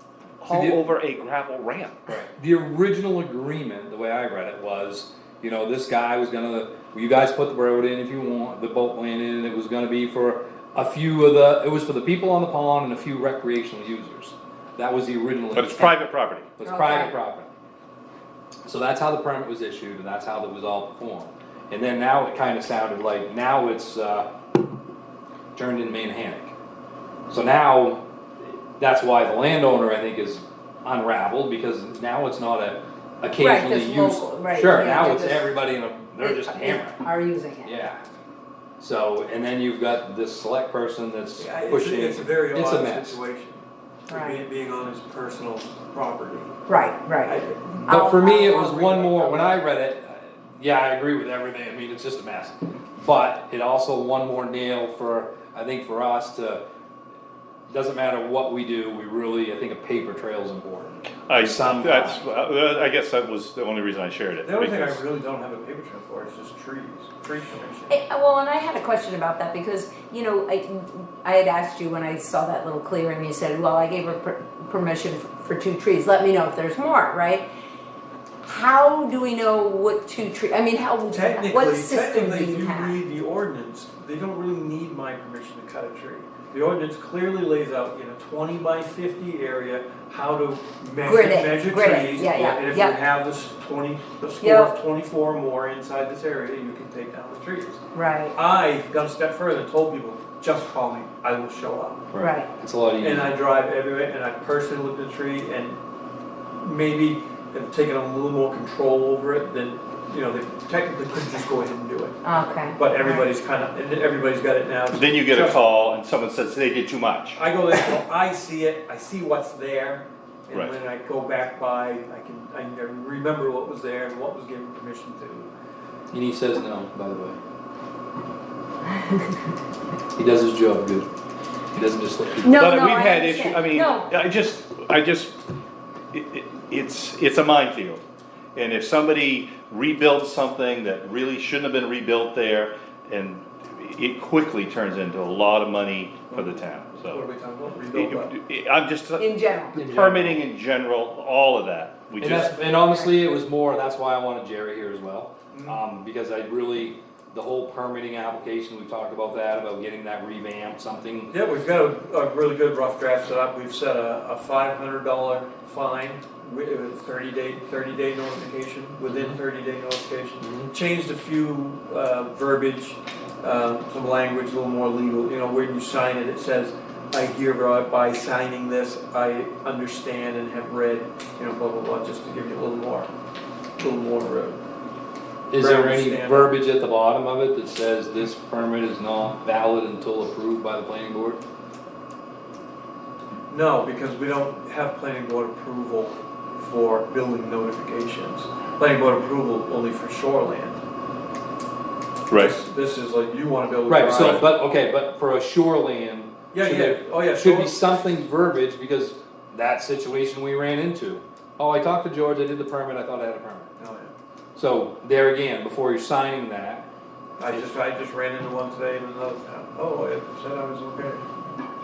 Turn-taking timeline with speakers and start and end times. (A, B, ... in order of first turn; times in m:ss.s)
0:00.4-0:02.0 A
0:00.5-0:00.8 B
0:02.1-0:16.0 B
0:15.5-0:16.5 A
0:16.6-0:17.5 B
0:16.6-0:17.2 C
0:18.7-0:24.3 B
0:25.6-0:26.5 B
0:27.3-0:37.1 B
0:33.4-0:35.6 C
0:36.2-0:37.7 C
0:37.6-0:38.0 B
0:38.8-0:43.2 B
0:41.4-0:46.6 D
0:44.1-0:44.4 C
0:46.7-0:49.6 C
0:47.2-0:47.8 D
0:47.9-0:56.6 B
0:57.7-1:02.3 B
1:01.3-1:05.0 A
1:04.4-1:08.0 D
1:07.9-1:17.5 C
1:18.4-1:23.0 C
1:21.1-1:37.8 D
1:31.0-1:33.0 C
1:34.4-1:34.7 C
1:37.9-1:38.4 C
1:38.3-1:42.1 D
1:42.1-1:43.4 B
1:42.2-1:42.5 C
1:43.0-1:45.8 D
1:46.6-1:52.2 D
1:52.2-1:53.3 C
1:52.8-1:55.6 D
1:54.9-1:57.4 A
1:57.3-2:05.5 D
2:00.5-2:00.8 A
2:06.1-2:07.4 B
2:10.2-2:11.1 B
2:11.7-2:12.5 B
2:12.4-2:14.2 C
2:12.5-2:15.3 A
2:16.1-2:18.0 A
2:18.5-2:27.2 A
2:26.3-2:28.3 D
2:27.9-2:32.6 A
2:29.2-2:29.8 C
2:29.8-2:30.4 B
2:32.2-2:41.3 B
2:32.8-2:33.1 C
2:35.5-2:35.8 D
2:41.3-3:03.1 D
2:49.1-2:49.4 B
2:50.4-2:50.7 B
3:03.8-3:04.6 D
3:05.5-3:11.4 B
3:05.5-3:06.6 D
3:13.5-3:20.8 D
3:22.3-3:22.6 A
3:22.3-3:24.5 D
3:23.9-3:33.7 B
3:26.5-3:28.0 D
3:33.8-3:34.1 D
3:34.6-3:36.8 B
3:37.4-3:41.2 D